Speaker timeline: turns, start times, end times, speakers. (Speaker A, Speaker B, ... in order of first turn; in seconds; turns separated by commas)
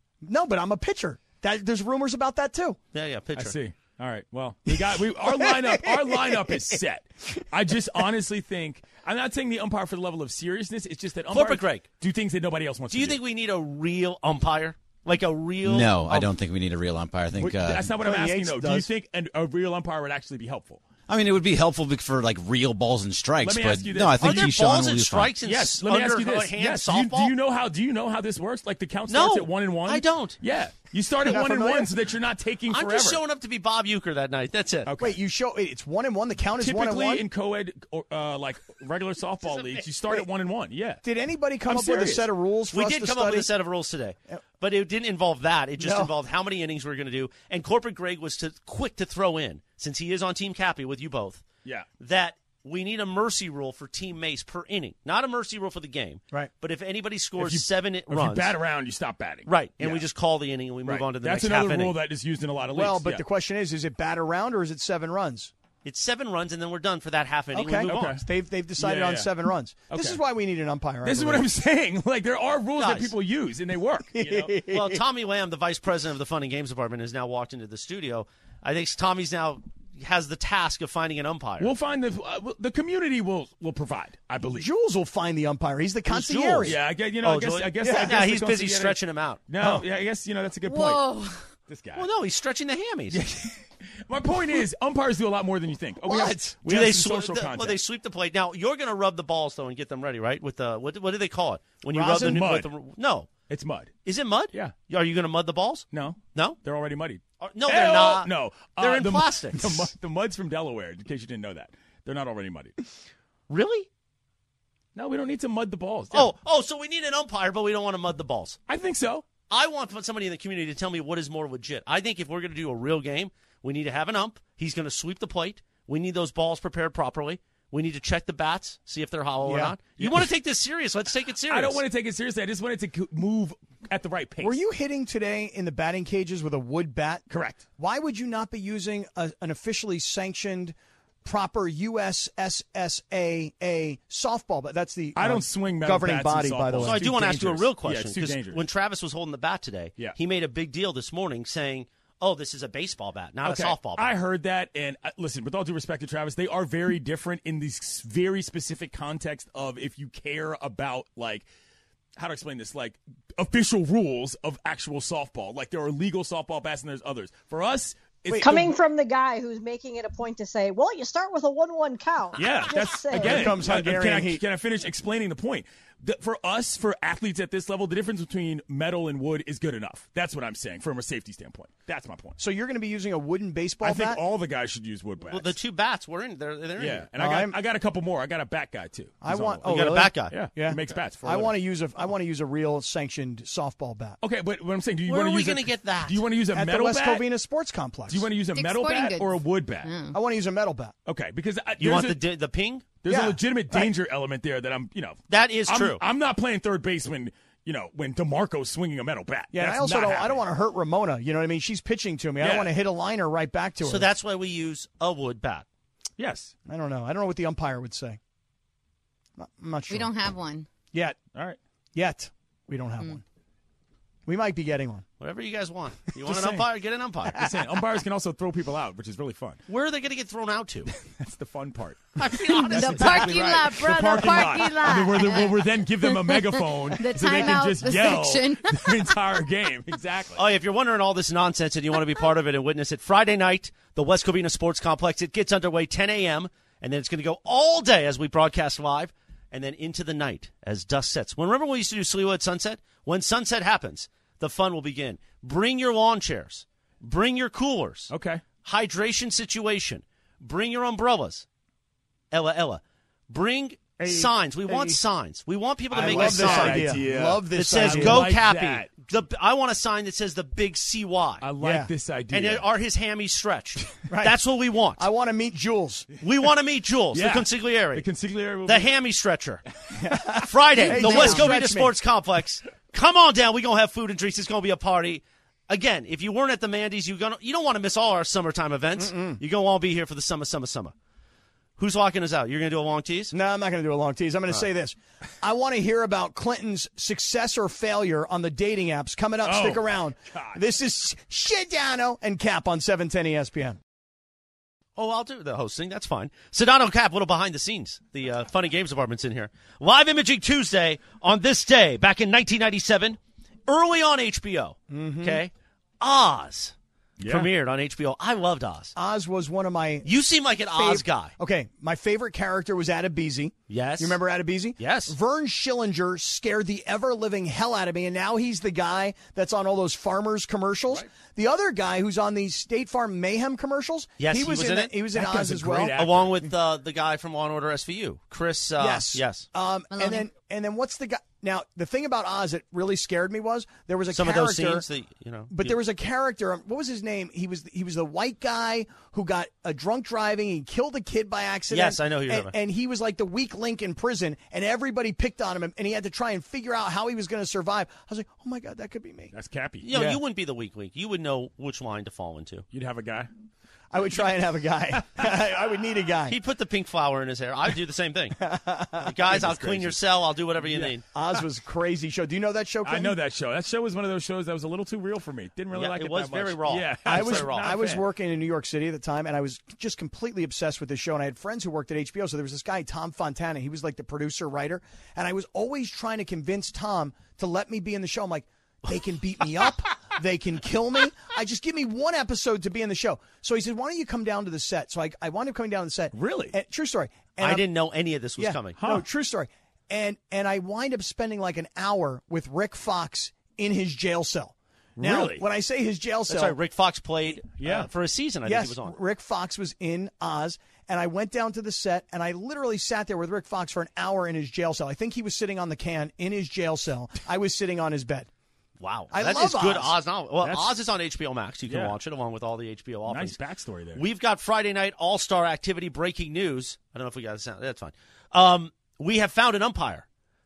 Speaker A: 0.2-2.8, Speaker B: 2.9-3.6, Speaker C: 3.3-13.2, Speaker A: 4.7-6.6, Speaker B: 11.3-11.9, Speaker B: 12.9-16.3, Speaker D: 15.7-17.9, Speaker C: 17.4-20.8, Speaker A: 17.9-18.9, Speaker D: 21.1-25.3, Speaker C: 23.4-24.6, Speaker B: 24.2-27.4, Speaker C: 25.4-33.2, Speaker B: 29.1-30.4, Speaker A: 31.2-31.9, Speaker B: 32.7-34.9, Speaker C: 34.9-35.2, Speaker A: 35.0-37.2, Speaker C: 36.6-41.0, Speaker B: 39.4-39.9, Speaker A: 41.0-43.5, Speaker C: 41.7-42.3, Speaker B: 42.7-51.5, Speaker A: 45.8-46.1, Speaker B: 52.0-58.6, Speaker C: 57.4-60.0, Speaker B: 59.5-62.0, Speaker C: 60.8-63.2, Speaker A: 62.7-65.5, Speaker B: 65.8-68.2, Speaker A: 67.5-71.5, Speaker C: 67.8-68.2, Speaker C: 68.8-69.3, Speaker C: 69.9-70.2, Speaker C: 71.0-74.6, Speaker B: 72.8-73.2, Speaker A: 74.2-75.0, Speaker B: 74.6-81.7, Speaker C: 81.6-84.7, Speaker A: 84.6-86.8, Speaker C: 86.1-91.0, Speaker B: 86.4-89.4, Speaker A: 87.8-88.2, Speaker A: 89.6-89.8, Speaker E: 90.7-91.5, Speaker C: 91.7-92.0, Speaker B: 91.9-93.2, Speaker C: 93.1-97.8, Speaker A: 96.0-96.6, Speaker B: 96.6-103.3, Speaker A: 101.9-102.5, Speaker C: 102.1-102.7, Speaker C: 103.5-104.0, Speaker B: 104.0-106.6, Speaker C: 105.9-112.7, Speaker B: 107.4-109.9, Speaker B: 113.5-113.9, Speaker C: 114.9-116.3, Speaker B: 116.1-118.6, Speaker C: 118.7-119.3, Speaker B: 119.5-131.8, Speaker A: 129.4-129.8, Speaker C: 130.0-130.2, Speaker C: 131.5-134.6, Speaker A: 134.4-137.2, Speaker C: 137.3-137.6, Speaker A: 137.8-147.1, Speaker C: 145.2-148.6, Speaker B: 146.8-154.2, Speaker C: 153.4-161.4, Speaker C: 162.2-168.7, Speaker A: 168.3-168.7, Speaker F: 168.3-173.6, Speaker C: 172.3-182.4, Speaker A: 173.1-174.4, Speaker A: 182.4-184.2, Speaker C: 183.8-185.6, Speaker B: 185.2-187.1, Speaker C: 186.8-191.6, Speaker A: 187.2-187.6, Speaker A: 189.2-194.2, Speaker B: 189.6-190.5, Speaker C: 194.2-197.3, Speaker B: 195.0-196.3, Speaker A: 196.5-198.3, Speaker C: 198.1-199.9, Speaker E: 198.5-200.2, Speaker A: 200.1-200.9, Speaker C: 201.1-202.2, Speaker B: 201.8-203.0, Speaker C: 203.0-210.4, Speaker A: 203.1-203.9, Speaker B: 205.3-206.0, Speaker A: 209.5-214.1, Speaker C: 212.4-212.7, Speaker B: 213.8-215.6, Speaker C: 216.2-216.5, Speaker A: 216.7-218.2, Speaker A: 219.4-220.2, Speaker E: 219.9-220.7, Speaker A: 221.9-223.2, Speaker A: 224.2-225.0, Speaker B: 225.2-227.5, Speaker C: 226.2-226.7, Speaker C: 227.3-229.6, Speaker B: 229.7-230.9, Speaker C: 231.0-240.4, Speaker B: 232.2-233.7, Speaker E: 232.6-239.2, Speaker B: 240.3-261.4, Speaker C: 258.1-258.4, Speaker B: 262.3-271.5, Speaker C: 264.0-265.0, Speaker C: 265.9-269.0, Speaker A: 265.9-268.3, Speaker C: 271.4-272.7, Speaker A: 271.6-271.9, Speaker B: 272.3-275.1, Speaker A: 274.1-274.4, Speaker A: 275.0-276.1, Speaker B: 276.2-278.1, Speaker C: 277.1-279.0, Speaker B: 278.6-279.6, Speaker A: 279.9-281.9, Speaker B: 280.5-290.9, Speaker E: 281.0-281.4, Speaker A: 289.0-289.4, Speaker B: 291.8-293.3, Speaker A: 293.3-303.8, Speaker C: 299.4-300.6, Speaker B: 304.9-318.9, Speaker A: 314.9-315.4, Speaker C: 317.2-317.5, Speaker A: 319.0-336.0, Speaker B: 320.0-321.3, Speaker B: 323.7-324.2, Speaker B: 324.8-325.2, Speaker B: 334.2-335.0, Speaker C: 335.1-336.4, Speaker B: 335.9-339.5, Speaker A: 338.8-344.9, Speaker E: 339.9-340.3, Speaker B: 344.1-345.8, Speaker A: 345.5-359.3, Speaker B: 351.7-352.5, Speaker C: 359.3-360.2, Speaker B: 359.8-362.6, Speaker C: 362.7-363.3, Speaker A: 363.9-366.4, Speaker B: 366.3-368.4, Speaker A: 368.4-369.1, Speaker B: 369.0-371.0, Speaker C: 369.3-370.0, Speaker C: 370.6-370.9, Speaker A: 371.1-373.2, Speaker C: 372.8-378.0, Speaker B: 375.7-377.7, Speaker A: 377.1-397.7, Speaker C: 396.1-396.6, Speaker B: 397.4-398.8, Speaker A: 398.4-406.6, Speaker C: 398.8-399.1, Speaker C: 405.0-405.4, Speaker B: 406.3-409.0, Speaker C: 407.6-407.9, Speaker A: 408.4-418.3, Speaker B: 418.8-423.4, Speaker A: 419.1-419.9, Speaker C: 420.4-420.8, Speaker C: 421.6-422.0, Speaker C: 423.1-424.0, Speaker B: 423.9-430.0